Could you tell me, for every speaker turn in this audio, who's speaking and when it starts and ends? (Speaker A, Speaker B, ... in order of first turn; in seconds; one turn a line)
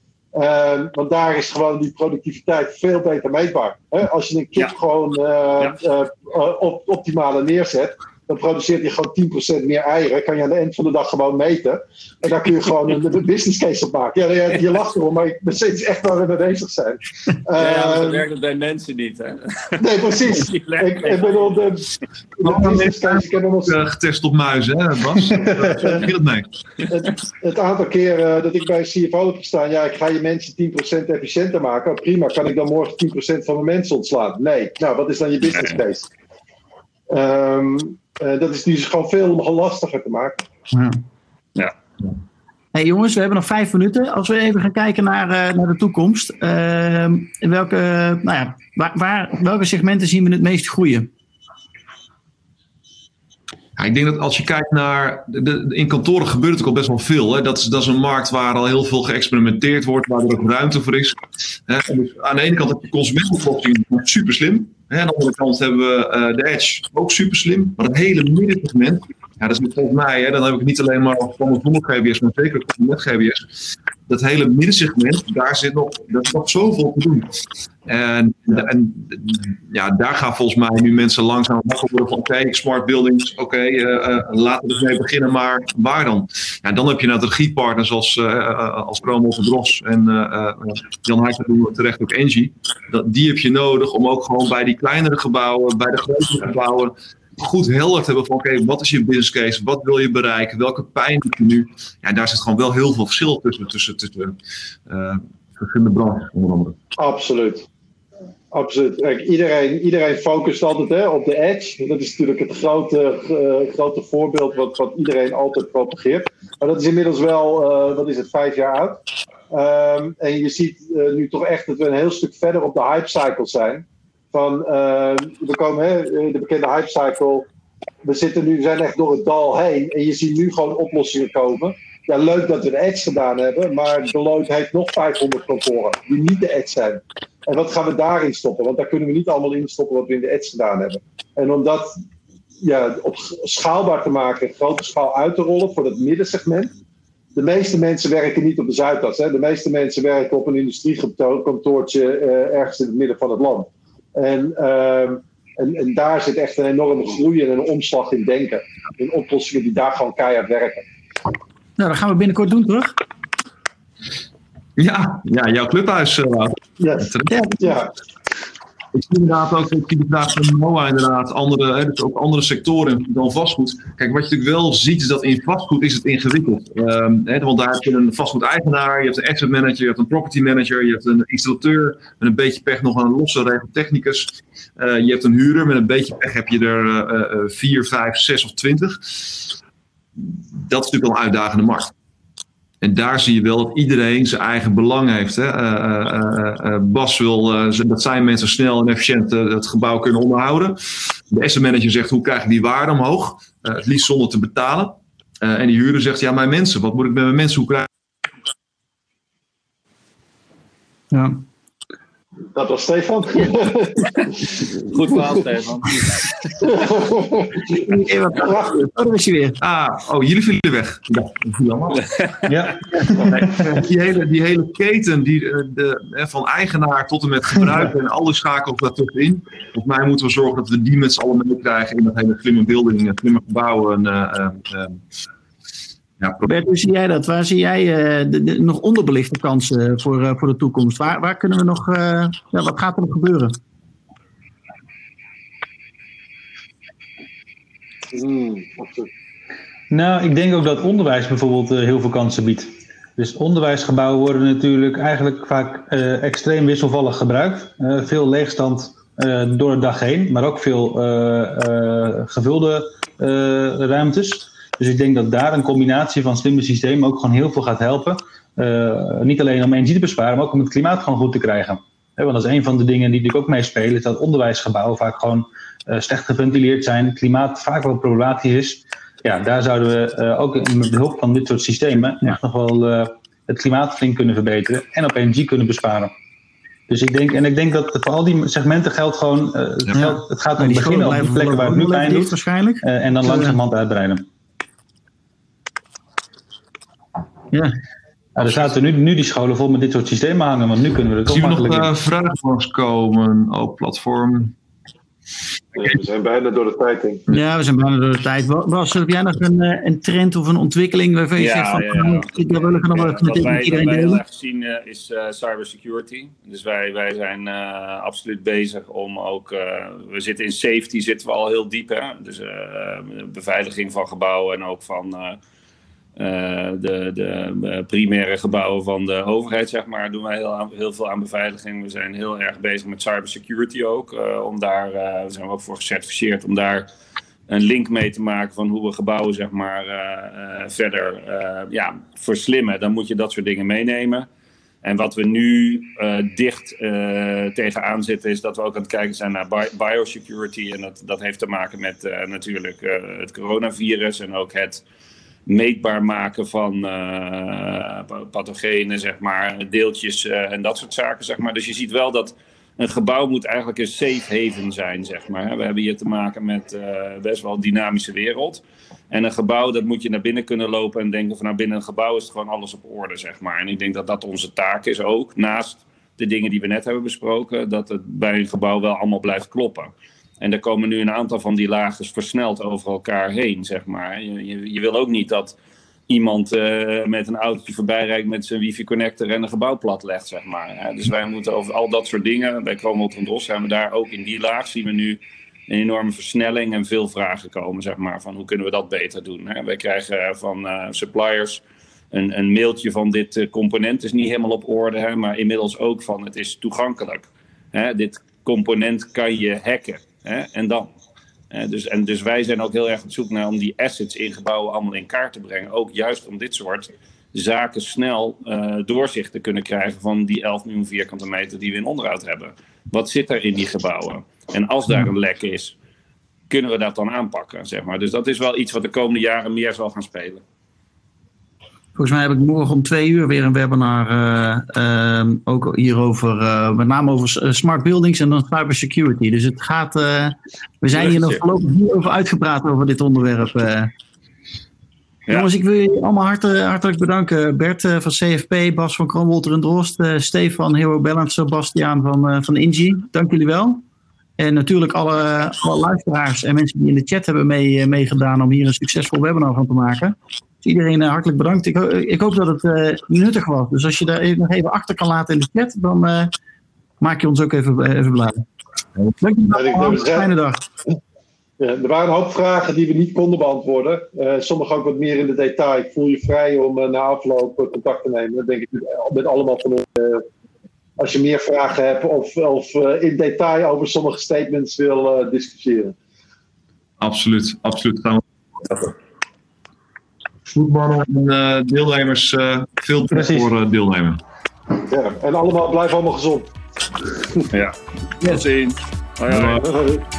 Speaker A: 0.3-18.2
Speaker B: 17.6-21.6
Speaker A: 19.8-23.8
Speaker C: 22.4-26.5
Speaker A: 26.9-36.1
Speaker B: 35.5-35.8
Speaker A: 37.1-40.4
Speaker D: 40.7-41.0
Speaker D: 42.7-51.1
Speaker C: 53.8-73.5
Speaker C: 74.1-77.3
Speaker C: 77.9-106.8
Speaker A: 107.0-107.7
Speaker A: 108.5-127.5
Speaker A: 128.0-142.0
Speaker A: 142.6-146.7
Speaker A: 147.3-160.9
Speaker D: 161.8-162.9
Speaker C: 164.8-167.3
Speaker A: 166.8-167.9
Speaker D: 167.3-167.6
Speaker C: 168.9-189.5
Speaker C: 190.2-191.9
Speaker C: 192.8-207.9
Speaker D: 211.1-211.4
Speaker A: 212.6-214.4
Speaker B: 214.2-216.3
Speaker A: 216.6-218.7
Speaker D: 217.7-219.6
Speaker C: 219.6-222.0
Speaker B: 222.0-222.5
Speaker E: 222.5-223.6
Speaker C: 223.2-235.0
Speaker C: 236.2-236.5
Speaker D: 236.4-243.6
Speaker A: 248.1-249.1
Speaker E: 249.9-286.1
Speaker E: 286.9-294.3
Speaker D: 289.9-293.6
Speaker D: 297.5-297.8
Speaker E: 298.4-301.9
Speaker C: 301.3-304.6
Speaker A: 305.7-307.2
Speaker D: 307.3-314.2
Speaker B: 311.4-325.4
Speaker B: 326.2-336.9
Speaker B: 337.5-344.3
Speaker B: 344.8-354.8
Speaker B: 355.5-385.6
Speaker B: 386.1-410.9
Speaker B: 411.5-425.7
Speaker B: 426.5-430.4
Speaker D: 431.9-443.9
Speaker B: 440.9-441.4
Speaker D: 445.3-453.8
Speaker D: 454.4-466.3
Speaker D: 467.0-468.4
Speaker D: 469.2-470.6
Speaker A: 469.5-470.3
Speaker A: 471.6-480.3
Speaker A: 481.0-485.9
Speaker C: 487.0-488.9
Speaker C: 490.5-494.2
Speaker E: 493.1-493.5
Speaker A: 494.8-496.5
Speaker B: 497.5-499.6
Speaker C: 499.3-499.6
Speaker A: 499.6-500.0